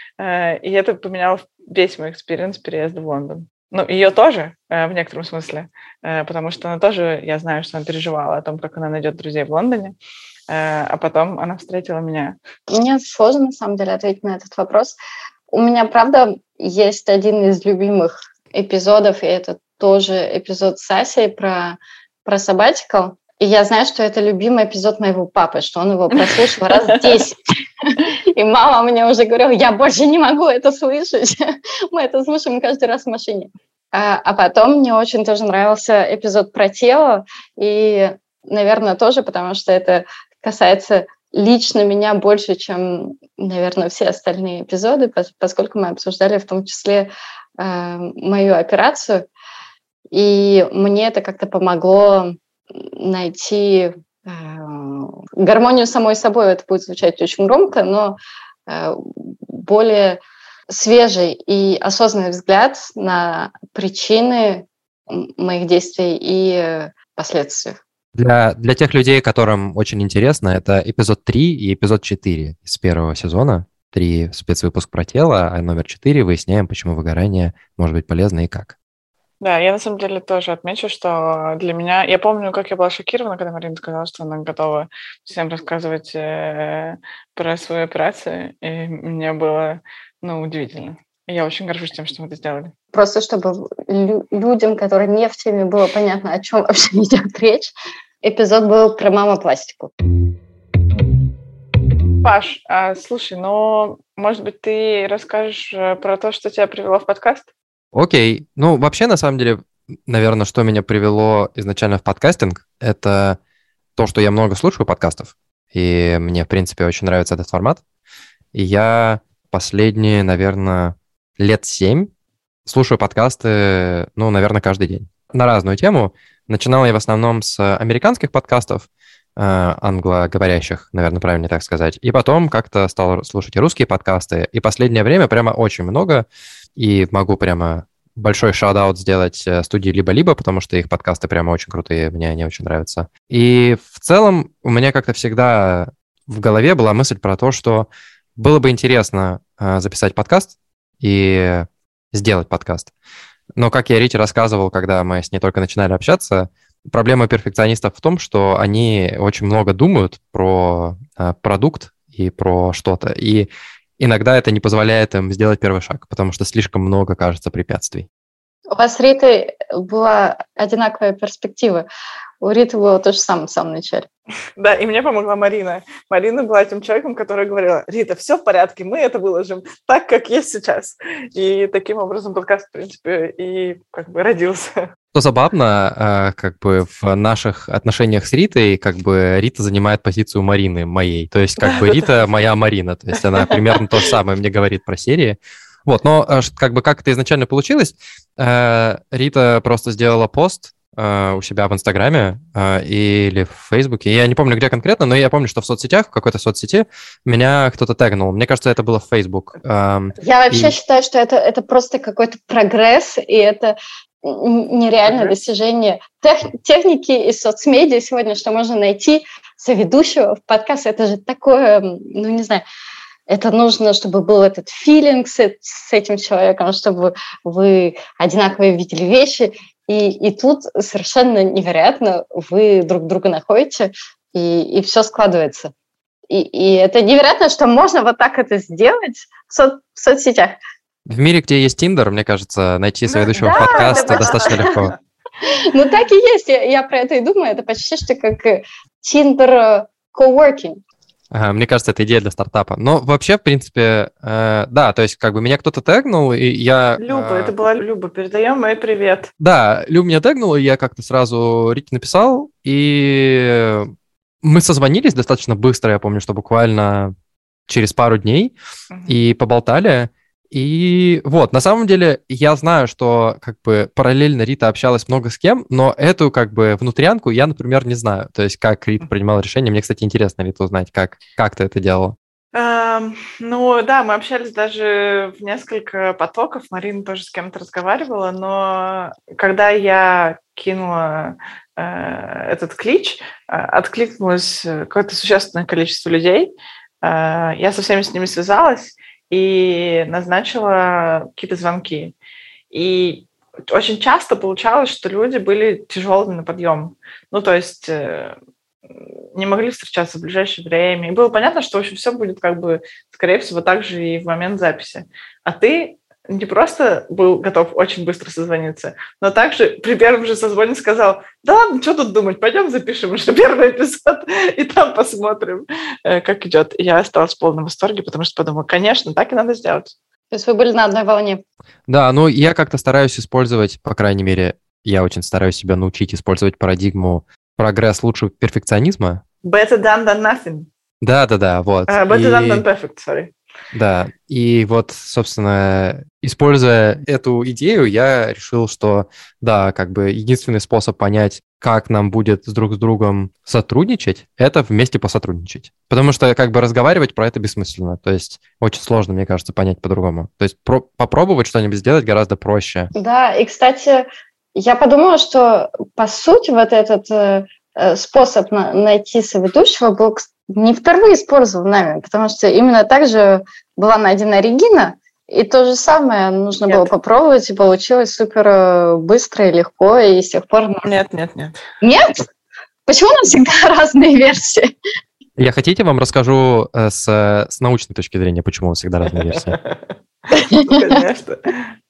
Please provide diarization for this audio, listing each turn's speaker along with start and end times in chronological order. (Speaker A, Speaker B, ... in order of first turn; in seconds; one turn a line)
Speaker A: 0.2-10.0
Speaker A: 10.5-12.4
Speaker B: 12.7-15.0
Speaker B: 15.5-27.4
Speaker A: 26.3-27.1
Speaker B: 27.9-49.3
Speaker B: 50.1-67.8
Speaker C: 68.2-78.7
Speaker A: 79.4-92.7
Speaker B: 92.9-99.9
Speaker A: 102.2-107.5
Speaker C: 107.9-113.4
Speaker C: 114.0-117.8
Speaker C: 118.5-122.1
Speaker C: 122.7-152.9
Speaker C: 153.6-168.1
Speaker B: 168.7-171.9
Speaker B: 172.4-174.1
Speaker A: 174.6-184.8
Speaker C: 185.1-210.7
Speaker A: 191.6-192.1
Speaker B: 210.2-222.7
Speaker B: 223.3-235.7
Speaker B: 236.3-240.6
Speaker C: 241.1-244.9
Speaker A: 243.1-244.8
Speaker B: 243.4-244.9
Speaker B: 245.4-250.8
Speaker C: 251.3-257.5
Speaker A: 257.0-259.3
Speaker C: 259.4-267.1
Speaker C: 267.7-268.5
Speaker A: 268.9-269.2
Speaker C: 269.1-282.2
Speaker A: 282.5-302.1
Speaker A: 302.7-308.4
Speaker A: 308.9-329.9
Speaker B: 330.3-331.4
Speaker C: 331.9-339.2
Speaker A: 339.4-340.7
Speaker C: 341.0-342.6
Speaker A: 341.9-343.3
Speaker C: 343.7-362.9
Speaker B: 362.9-380.9
Speaker A: 380.9-381.6
Speaker B: 381.8-382.3
Speaker B: 382.9-384.7
Speaker C: 385.4-389.6
Speaker A: 389.5-389.8
Speaker B: 390.3-391.0
Speaker A: 390.5-391.6